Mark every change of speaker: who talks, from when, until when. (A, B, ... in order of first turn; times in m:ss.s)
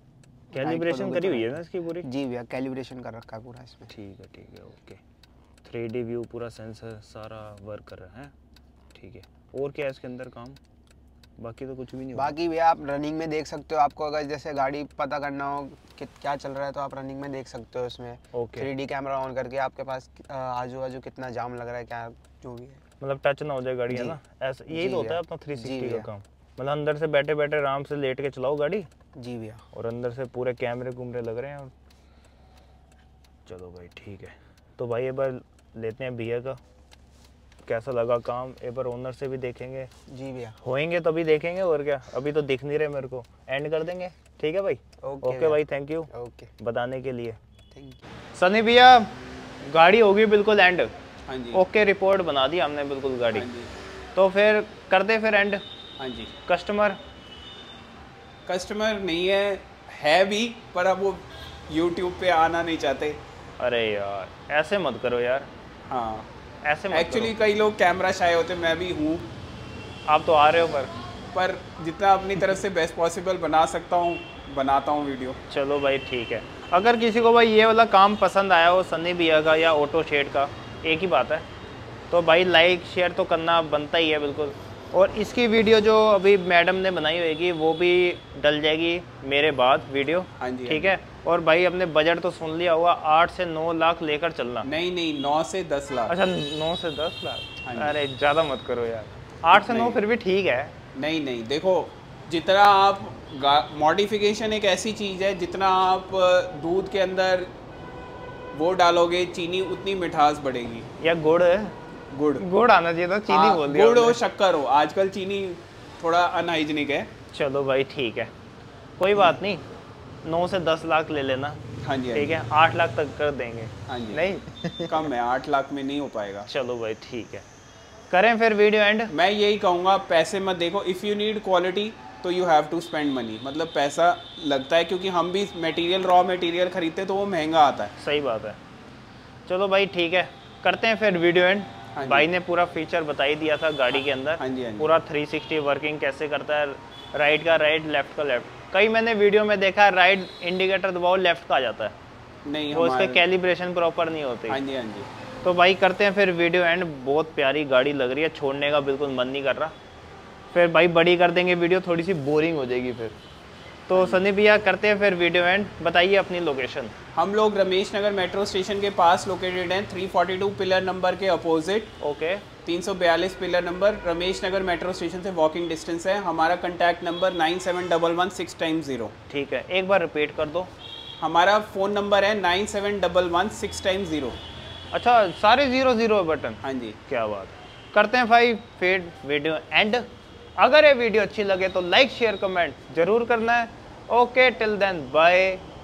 0:00.5-0:03.9 A
0:00.5-0:02.1 B
0:03.9-0:05.0 B
0:05.6-0:08.3 B
0:08.9-0:10.6 B
0:11.4-0:12.3 B
0:12.1-0:22.8 A
0:18.3-0:18.7 B
0:23.0-0:28.9 B
0:23.9-0:24.2 A
0:24.7-0:26.1 A
0:29.2-0:29.6 A
0:29.7-0:31.7 B
0:33.4-0:36.6 B
0:37.6-0:39.9 B
0:40.1-0:40.6 A
0:40.6-0:47.4 B
0:45.0-0:46.5 A
0:47.7-0:48.0 A
0:48.4-0:49.1 B
0:49.6-0:50.9 B
0:51.3-0:51.6 C
0:51.5-0:53.5 B
0:53.3-0:53.7 C
0:54.1-0:55.6 B
0:56.0-0:56.3 C
0:56.5-0:57.0 B
0:58.5-1:03.2 C
1:03.6-1:05.5 B
1:05.9-1:06.3 C
1:06.6-1:07.3 B
1:06.9-1:09.2 C
1:10.1-1:10.9 B
1:11.3-1:15.4 C
1:15.5-1:21.4 B
1:22.1-1:34.7 B
1:30.4-1:30.9 C
1:34.6-1:36.1 C
1:36.1-1:40.7 B
1:37.6-1:38.0 C
1:39.5-1:40.0 C
1:41.0-1:47.5 C
1:48.5-1:50.9 C
1:51.0-1:51.7 B
1:52.1-1:52.4 C
1:52.4-1:54.2 B
1:53.3-1:57.1 C
1:57.3-1:58.3 B
1:59.0-1:59.6 B
2:00.2-2:01.6 B
2:01.8-2:02.4 C
2:02.1-2:05.1 B
2:03.9-2:04.2 C
2:04.9-2:06.5 C
2:06.5-2:07.4 B
2:08.1-2:09.1 B
2:09.1-2:17.9 C
2:18.0-2:18.6 B
2:19.5-2:31.9 B
2:21.9-2:22.3 C
2:23.9-2:24.9 C
2:32.4-2:33.2 C
2:32.7-2:34.6 B
2:34.5-2:35.1 C
2:35.4-2:39.7 B
2:40.5-2:43.2 B
2:43.9-2:46.9 B
2:43.9-2:44.2 C
2:47.2-2:51.9 C
2:52.0-2:52.4 B
2:52.6-2:59.1 C
2:59.3-3:00.7 B
3:01.2-3:04.4 C
3:04.9-3:10.1 B
3:06.6-3:07.0 C
3:10.6-3:15.6 B